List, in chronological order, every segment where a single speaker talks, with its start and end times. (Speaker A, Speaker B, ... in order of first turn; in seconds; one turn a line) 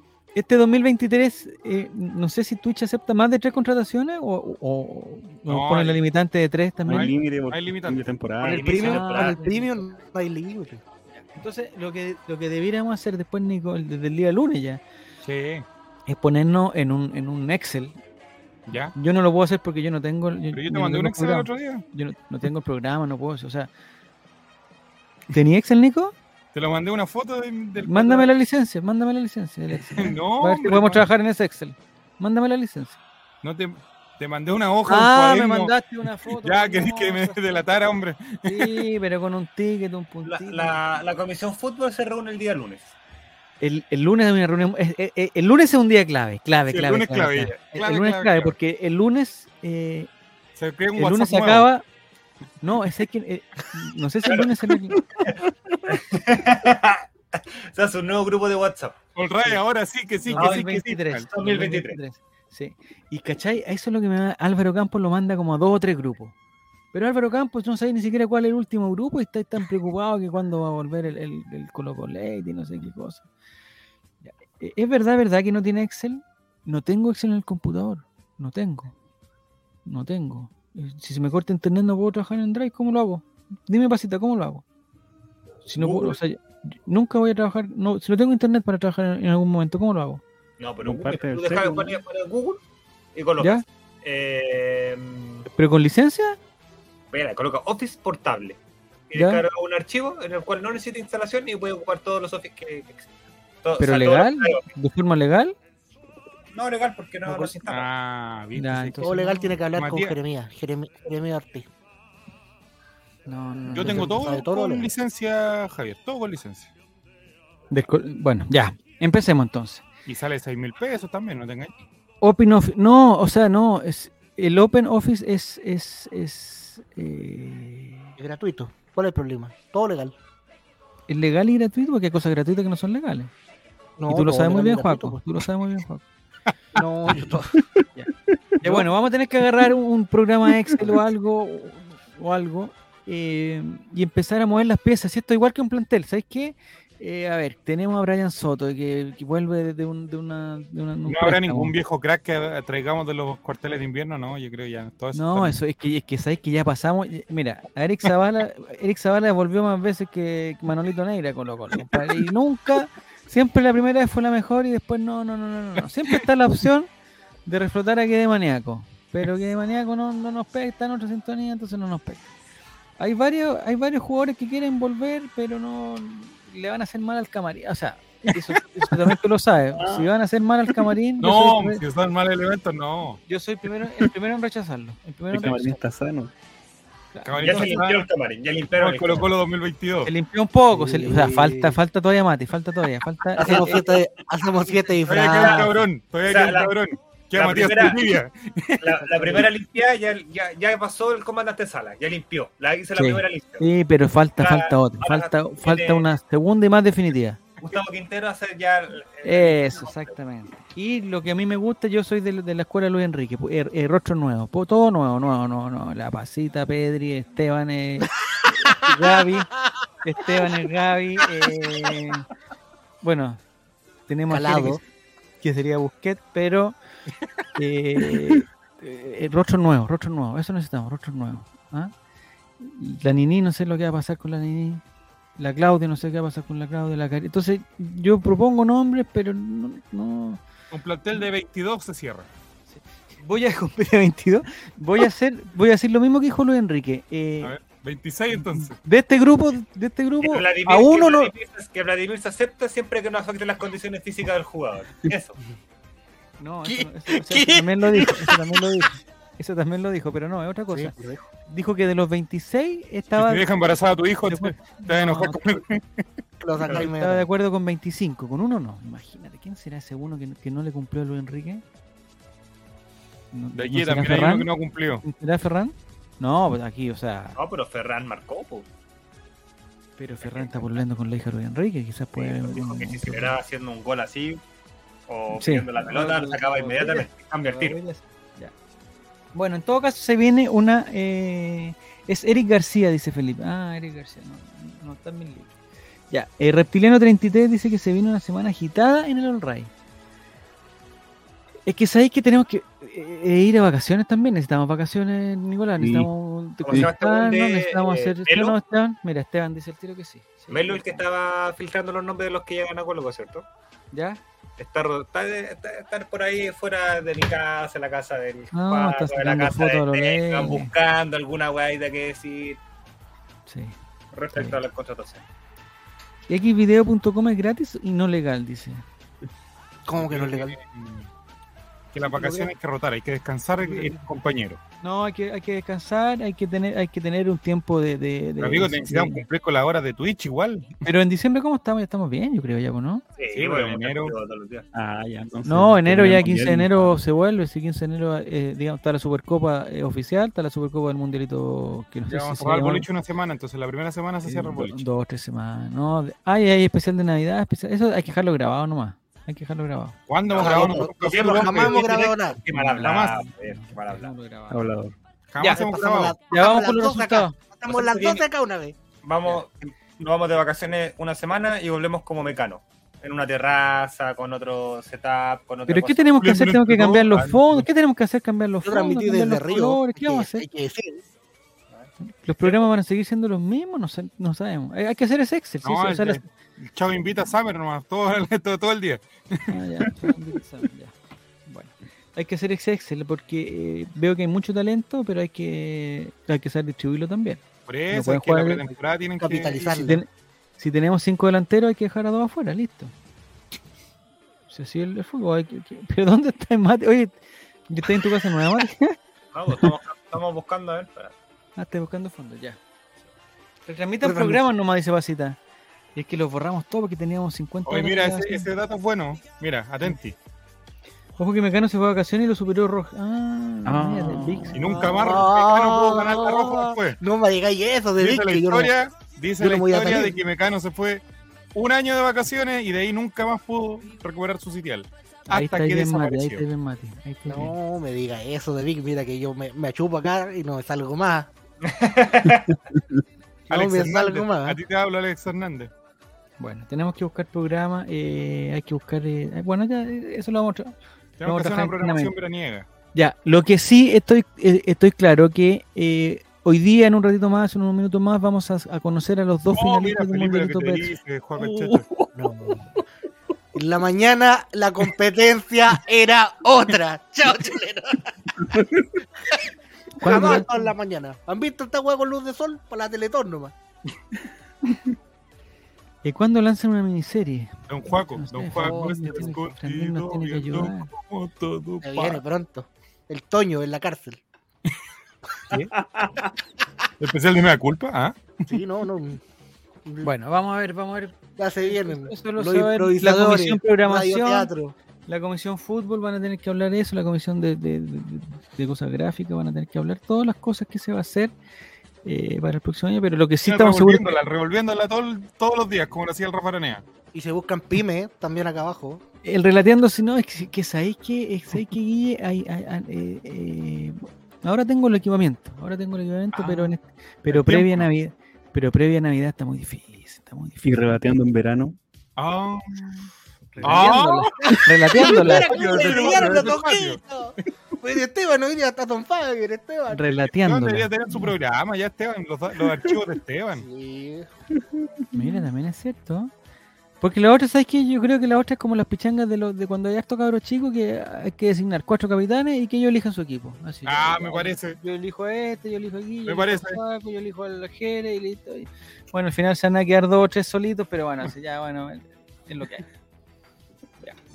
Speaker A: 0.3-7.1
Speaker B: 5.5-6.0
Speaker C: 6.9-8.8
Speaker B: 6.9-8.1
Speaker D: 8.4-9.4
Speaker E: 8.4-10.8
Speaker A: 8.7-9.8
Speaker A: 11.1-14.8
Speaker B: 15.2-15.6
Speaker A: 16.1-17.9
Speaker B: 18.7-18.9
Speaker A: 18.9-23.7
Speaker B: 20.5-21.8
Speaker A: 25.3-26.1
Speaker B: 26.5-28.3
Speaker A: 27.8-33.0
Speaker B: 29.7-31.0
Speaker B: 33.4-35.7
Speaker A: 34.9-37.7
Speaker B: 36.3-38.8
Speaker A: 38.5-40.8
Speaker D: 40.2-42.9
Speaker A: 43.6-50.1
Speaker B: 46.7-48.5
Speaker B: 50.6-51.7
Speaker A: 51.0-51.8
Speaker A: 52.6-55.0
Speaker C: 55.2-55.8
Speaker D: 55.9-59.0
Speaker B: 59.1-61.3
Speaker A: 60.2-66.3
Speaker D: 60.4-60.7
Speaker D: 61.3-62.0
Speaker A: 66.9-73.3
Speaker A: 74.2-78.9
Speaker A: 79.8-84.6
Speaker A: 85.6-90.2
Speaker D: 85.8-86.2
Speaker D: 90.6-92.6
Speaker C: 90.8-91.9
Speaker D: 93.1-95.5
Speaker A: 95.5-96.4
Speaker D: 97.1-98.6
Speaker D: 99.1-103.1
Speaker A: 99.1-99.4
Speaker D: 103.6-104.6
Speaker A: 103.8-105.5
Speaker D: 106.5-107.9
Speaker A: 107.2-107.5
Speaker B: 107.7-109.0
Speaker A: 108.5-109.6
Speaker E: 109.0-111.7
Speaker B: 109.7-110.1
Speaker A: 113.3-114.4
Speaker B: 113.7-116.7
Speaker E: 113.8-114.9
Speaker A: 117.7-119.8
Speaker B: 120.0-121.7
Speaker A: 122.2-128.2
Speaker E: 128.2-130.1
Speaker A: 131.1-133.3
Speaker E: 134.0-135.2
Speaker A: 134.1-136.0
Speaker E: 136.7-137.6
Speaker A: 138.6-151.7
Speaker B: 151.1-155.6
Speaker A: 155.1-166.9
Speaker A: 167.4-172.3
Speaker A: 173.0-181.8
Speaker B: 178.3-179.2
Speaker C: 179.8-180.0
Speaker B: 181.2-183.2
Speaker A: 183.3-185.8
Speaker C: 185.3-186.3
Speaker A: 187.1-187.8
Speaker B: 187.2-188.1
Speaker D: 187.4-189.3
Speaker B: 188.8-190.1
Speaker A: 190.0-193.8
Speaker E: 190.7-191.8
Speaker E: 193.4-195.8
Speaker B: 195.0-199.4
Speaker D: 195.3-195.7
Speaker D: 196.2-196.7
Speaker D: 197.3-198.1
Speaker D: 198.8-203.7
Speaker A: 202.9-207.4
Speaker D: 204.4-206.1
Speaker D: 207.6-210.2
Speaker A: 209.2-222.2
Speaker A: 223.0-223.4
Speaker A: 224.1-224.8
Speaker E: 224.3-224.8
Speaker A: 225.4-226.8
Speaker A: 227.6-231.9
Speaker A: 232.6-234.8
Speaker A: 235.4-240.4
Speaker B: 240.7-242.3
Speaker A: 242.7-247.5
Speaker B: 247.4-248.8
Speaker A: 248.4-251.3
Speaker D: 250.2-255.4
Speaker A: 256.4-260.9
Speaker E: 256.6-258.6
Speaker E: 260.7-261.2
Speaker A: 261.5-263.5
Speaker B: 263.1-266.0
Speaker A: 264.2-265.4
Speaker E: 266.4-267.3
Speaker A: 266.6-271.6
Speaker A: 273.3-274.5
Speaker B: 273.5-275.0
Speaker A: 275.0-277.4
Speaker D: 277.4-278.7
Speaker A: 280.0-283.4
Speaker D: 280.2-280.8
Speaker D: 282.1-284.4
Speaker D: 285.1-287.8
Speaker A: 285.3-288.5
Speaker A: 289.3-295.5
Speaker A: 296.1-299.7
Speaker A: 301.6-311.0
Speaker C: 305.8-306.1
Speaker D: 306.6-308.6
Speaker D: 310.5-313.4
Speaker A: 313.9-314.2
Speaker D: 314.6-322.6
Speaker A: 318.5-320.7
Speaker A: 323.5-323.8
Speaker D: 324.1-325.2
Speaker A: 324.3-324.6
Speaker A: 326.3-328.8
Speaker E: 329.9-330.6
Speaker B: 329.9-331.1
Speaker B: 331.9-334.6
Speaker E: 332.0-332.5
Speaker A: 333.6-334.1
Speaker A: 334.8-339.2
Speaker B: 338.4-340.7
Speaker A: 340.8-343.0
Speaker D: 343.2-344.6
Speaker B: 343.3-344.1
Speaker C: 344.7-346.9
Speaker A: 345.4-352.9
Speaker B: 352.1-354.8
Speaker A: 354.2-359.9
Speaker B: 360.1-361.9
Speaker D: 360.3-364.1
Speaker E: 360.4-362.4
Speaker A: 362.5-364.6
Speaker B: 362.7-363.2
Speaker C: 364.5-364.9
Speaker B: 365.3-366.2
Speaker E: 365.4-368.8
Speaker A: 366.3-367.4
Speaker D: 367.6-368.2
Speaker D: 369.0-376.1
Speaker A: 375.7-380.5
Speaker B: 376.2-377.7
Speaker E: 378.6-381.0
Speaker D: 381.7-382.6
Speaker A: 382.1-386.2
Speaker B: 385.6-389.6
Speaker A: 389.5-390.9
Speaker A: 391.4-398.7
Speaker B: 397.7-399.6
Speaker E: 399.2-400.0
Speaker A: 399.6-402.9
Speaker A: 404.5-408.9
Speaker D: 409.3-411.1
Speaker A: 411.6-412.6
Speaker A: 413.7-415.4
Speaker E: 414.0-414.4
Speaker A: 415.9-418.5
Speaker B: 417.6-420.1
Speaker A: 421.2-425.1
Speaker C: 423.6-424.5
Speaker B: 424.5-427.0
Speaker E: 424.9-428.7
Speaker B: 428.0-431.0
Speaker E: 429.4-430.1
Speaker B: 431.5-436.4
Speaker A: 435.3-437.5
Speaker E: 437.3-441.3
Speaker D: 441.6-442.5
Speaker B: 443.5-445.7
Speaker E: 443.5-444.6
Speaker A: 446.4-452.1
Speaker B: 451.2-452.7
Speaker A: 452.9-460.9
Speaker B: 459.5-461.9
Speaker E: 462.1-462.7
Speaker E: 463.5-468.1
Speaker A: 470.0-470.7
Speaker E: 470.0-473.5
Speaker A: 476.0-480.9
Speaker B: 477.7-482.2
Speaker E: 478.6-479.3
Speaker E: 481.8-484.2
Speaker B: 487.0-488.4
Speaker E: 488.5-489.2
Speaker E: 489.8-490.1
Speaker A: 490.0-494.5
Speaker E: 491.4-494.7
Speaker A: 495.1-501.3
Speaker A: 502.0-504.1
Speaker B: 503.4-506.8
Speaker E: 507.1-509.0
Speaker A: 509.2-521.0
Speaker B: 516.3-516.7
Speaker B: 517.3-517.9
Speaker C: 520.6-521.8
Speaker B: 522.2-522.6
Speaker A: 523.5-525.6
Speaker B: 523.6-524.4
Speaker E: 524.9-530.1
Speaker B: 524.9-527.0
Speaker A: 529.9-531.3
Speaker B: 530.3-533.6
Speaker E: 533.5-534.3
Speaker A: 535.1-536.3
Speaker A: 537.0-552.8
Speaker B: 543.9-544.8
Speaker B: 546.2-546.8